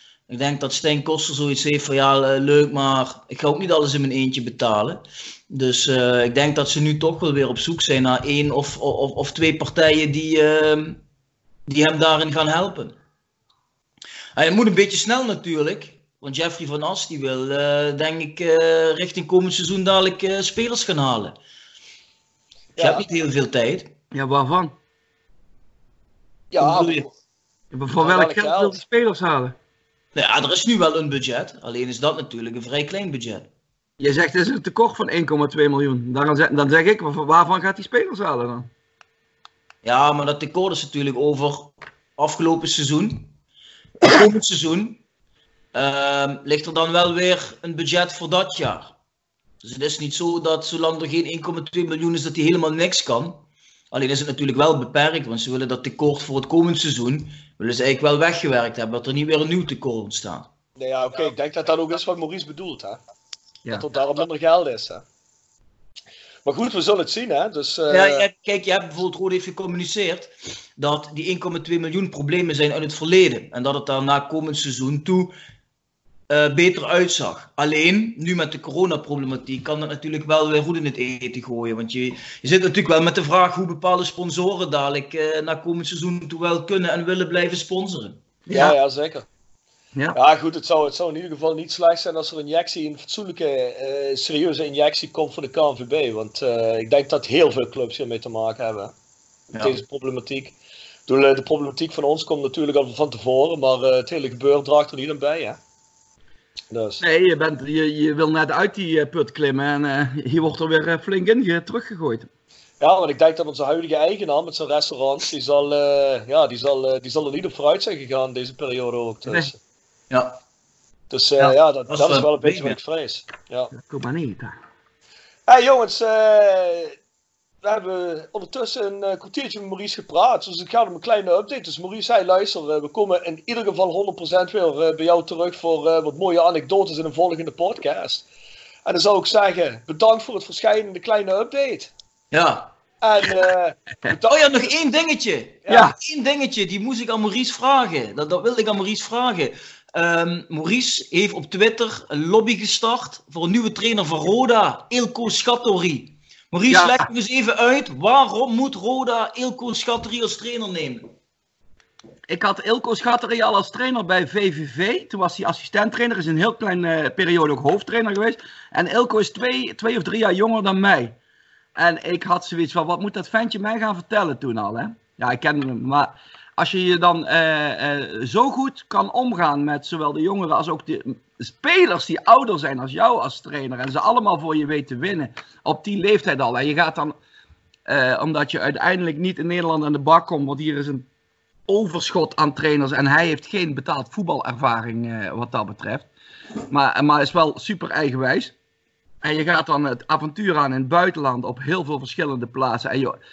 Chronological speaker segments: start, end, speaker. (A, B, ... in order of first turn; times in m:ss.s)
0:00.3-0:11.0 A
0:11.7-0:13.0 A
0:14.4-0:21.4 A
0:22.8-0:23.0 B
0:22.8-0:23.9 A
0:24.1-0:24.8 C
0:26.5-0:27.1 B
0:26.6-0:27.1 A
0:27.7-0:29.6 C
0:28.0-0:28.8 B
0:30.2-0:33.5 A
0:34.0-0:38.7 C
0:39.8-0:43.3 A
0:44.0-0:45.0 A
0:45.7-0:48.9 A
0:49.6-1:00.5 A
1:00.8-1:03.0 B
1:03.7-1:05.0 B
1:06.4-1:08.3 B
1:07.9-1:15.4 A
1:16.3-1:28.2 A
1:28.5-1:28.8 C
1:28.5-1:29.3 B
1:30.1-1:38.9 B
1:39.6-1:40.6 B
1:41.1-1:45.6 B
1:46.7-1:47.0 B
1:47.0-1:52.3 C
1:52.8-1:59.6 B
2:00.1-2:00.4 A
2:01.1-2:03.7 B
2:01.4-2:02.8 A
2:03.7-2:04.6 C
2:05.5-2:07.0 B
2:07.6-2:18.3 B
2:18.8-2:21.9 B
2:22.3-2:22.7 A
2:23.0-2:23.8 B
2:24.2-2:41.1 A
2:25.7-2:25.9 C
2:36.7-2:37.1 C
2:42.3-2:51.2 C
2:51.8-3:07.2 C
3:07.9-3:11.1 C
3:11.7-3:16.1 C
3:16.7-3:18.5 C
3:19.2-3:23.2 C